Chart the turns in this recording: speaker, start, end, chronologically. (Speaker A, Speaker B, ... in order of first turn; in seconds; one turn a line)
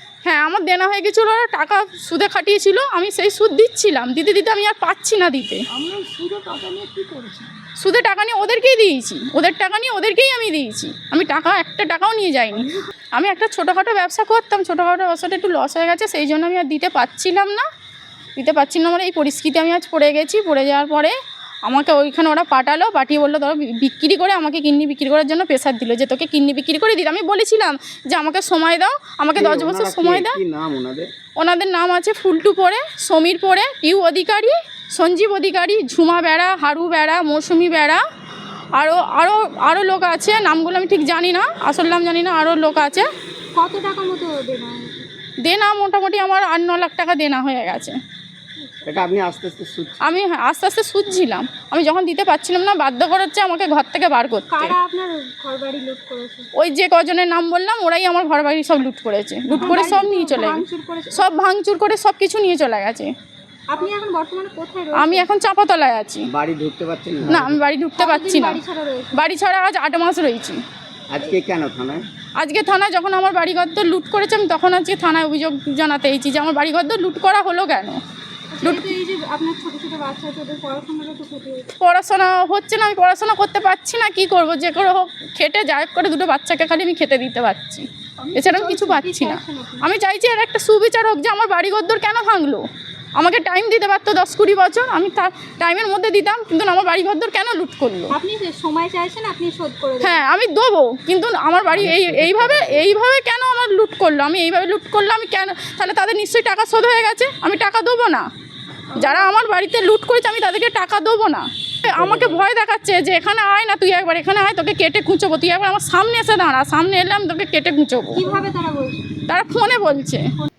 Speaker A: 0.3-5.6
Speaker B: 5.7-7.5
Speaker A: 7.8-17.6
Speaker A: 18.4-21.1
Speaker A: 21.7-30.4
Speaker C: 29.4-31.1
Speaker A: 31.4-38.0
Speaker A: 38.8-43.1
Speaker D: 43.5-45.0
Speaker A: 45.4-48.0
Speaker C: 48.9-50.1
Speaker A: 50.0-54.8
Speaker D: 54.5-56.5
Speaker A: 56.6-60.6
Speaker D: 59.6-61.3
Speaker A: 61.1-63.1
Speaker D: 63.7-65.3
Speaker A: 65.0-66.3
Speaker C: 66.3-67.6
Speaker A: 67.3-68.6
Speaker D: 68.0-69.2
Speaker A: 69.2-70.6
Speaker C: 71.1-72.0
Speaker A: 72.4-78.0
Speaker D: 78.5-81.7
Speaker A: 81.8-92.7
Speaker B: 88.4-88.7
Speaker D: 88.8-89.9
Speaker A: 93.2-98.2
Speaker D: 98.1-100.2
Speaker A: 100.0-108.3
Speaker C: 101.7-102.9
Speaker A: 109.0-118.2
Speaker C: 111.9-112.4
Speaker D: 118.2-119.0
Speaker A: 119.3-120.3